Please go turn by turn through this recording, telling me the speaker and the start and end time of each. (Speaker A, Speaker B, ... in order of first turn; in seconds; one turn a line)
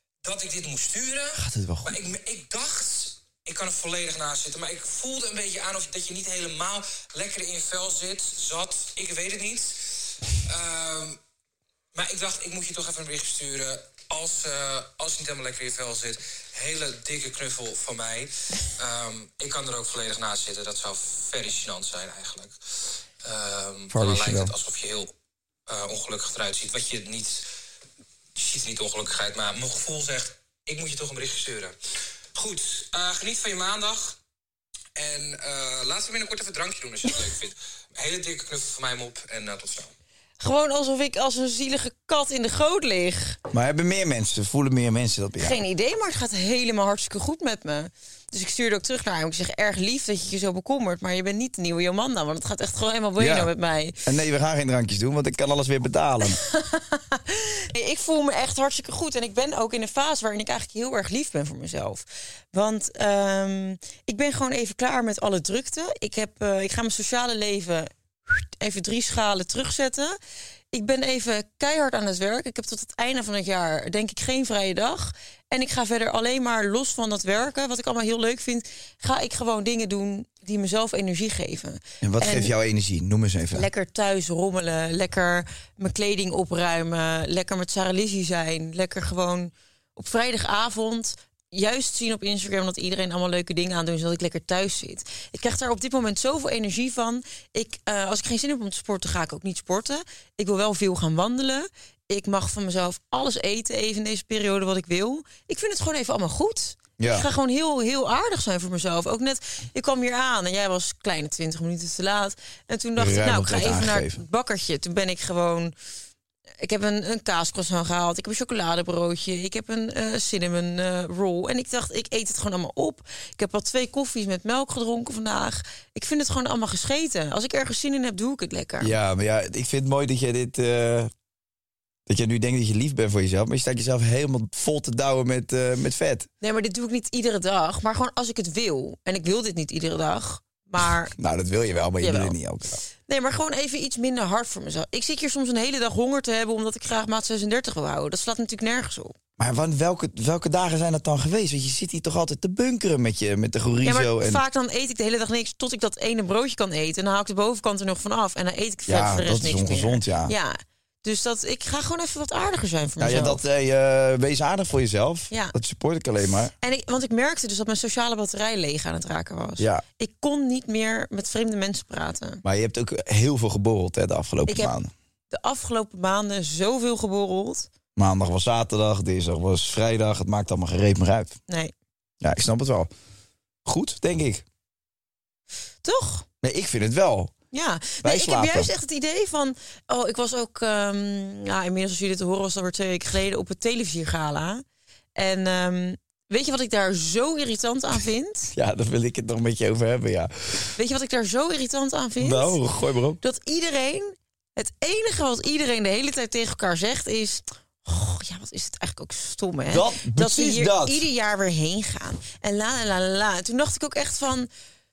Speaker A: 0.2-11.2
Speaker B: 1.3-2.0
Speaker A: 11.9-22.5
Speaker A: 23.2-25.1
Speaker B: 23.9-24.5
Speaker A: 25.7-27.4
Speaker A: 28.3-31.7
Speaker A: 32.3-34.2
Speaker A: 35.0-39.9
Speaker C: 40.4-43.4
Speaker B: 43.5-45.6
Speaker C: 45.4-54.0
Speaker B: 53.2-53.5
Speaker B: 54.0-56.4
Speaker C: 56.4-70.2
Speaker C: 70.7-82.5
Speaker B: 82.0-83.7
Speaker C: 83.5-115.7
Speaker B: 107.0-107.3
Speaker B: 113.0-114.2
Speaker C: 116.6-128.9
Speaker B: 128.8-131.1
Speaker B: 132.1-136.3
Speaker C: 136.4-141.1
Speaker B: 141.1-142.8
Speaker C: 142.0-142.3
Speaker C: 143.1-149.1
Speaker B: 149.4-154.4
Speaker C: 153.8-163.4
Speaker B: 158.9-160.3
Speaker B: 163.0-166.5
Speaker C: 166.6-172.4
Speaker B: 169.6-169.8
Speaker B: 172.4-174.9
Speaker C: 174.5-174.7
Speaker C: 175.3-177.7
Speaker B: 177.9-181.4
Speaker B: 182.2-182.9
Speaker B: 183.6-184.4
Speaker C: 185.8-186.2
Speaker B: 186.4-187.3
Speaker C: 187.5-194.6
Speaker B: 188.0-188.7
Speaker C: 195.2-198.5
Speaker B: 198.5-200.7
Speaker C: 200.8-202.6
Speaker B: 202.2-203.2
Speaker C: 203.2-214.5
Speaker B: 209.7-211.0